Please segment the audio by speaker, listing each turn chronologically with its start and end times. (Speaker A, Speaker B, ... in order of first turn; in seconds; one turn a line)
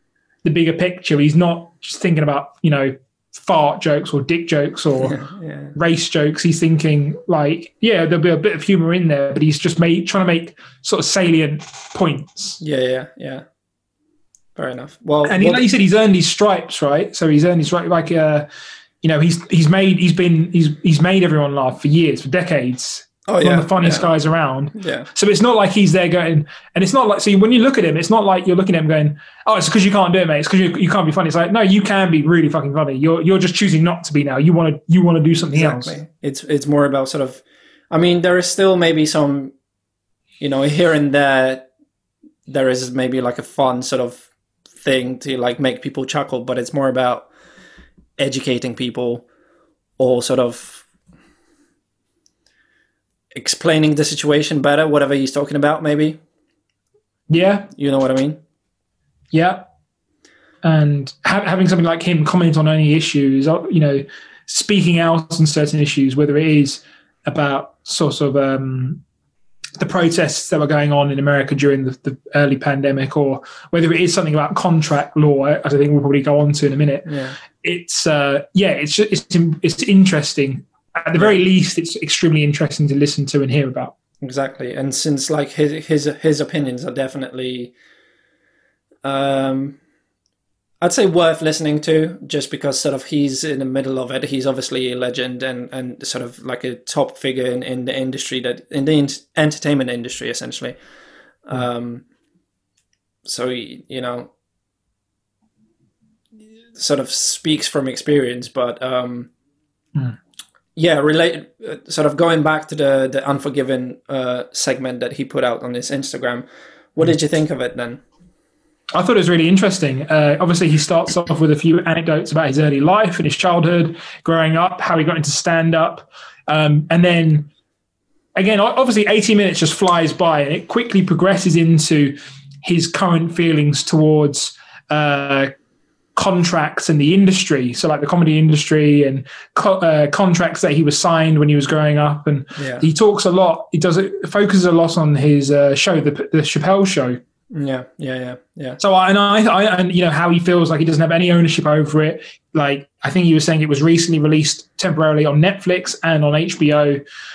Speaker A: 0.4-5.2
Speaker B: 5.0-5.7
Speaker A: 5.7-12.6
Speaker B: 12.6-13.4
Speaker B: 14.6-15.6
Speaker A: 15.2-18.5
Speaker A: 19.0-36.0
Speaker B: 23.3-24.1
Speaker B: 24.7-25.1
Speaker B: 35.5-39.5
Speaker B: 40.4-41.7
Speaker B: 42.5-44.2
Speaker B: 44.8-47.3
Speaker B: 48.2-49.2
Speaker B: 50.0-50.8
Speaker B: 53.3-56.2
Speaker A: 57.3-57.7
Speaker B: 57.7-58.4
Speaker A: 59.3-59.6
Speaker A: 60.6-69.0
Speaker A: 69.8-83.9
Speaker B: 77.1-77.3
Speaker B: 84.2-87.7
Speaker B: 89.0-89.8
Speaker B: 90.8-100.8
Speaker B: 101.5-102.0
Speaker B: 103.2-104.3
Speaker B: 106.7-109.3
Speaker B: 110.8-118.0
Speaker A: 118.9-127.5
Speaker A: 128.4-135.5
Speaker A: 136.2-147.2
Speaker B: 142.6-142.8
Speaker B: 147.5-148.8
Speaker A: 148.8-157.0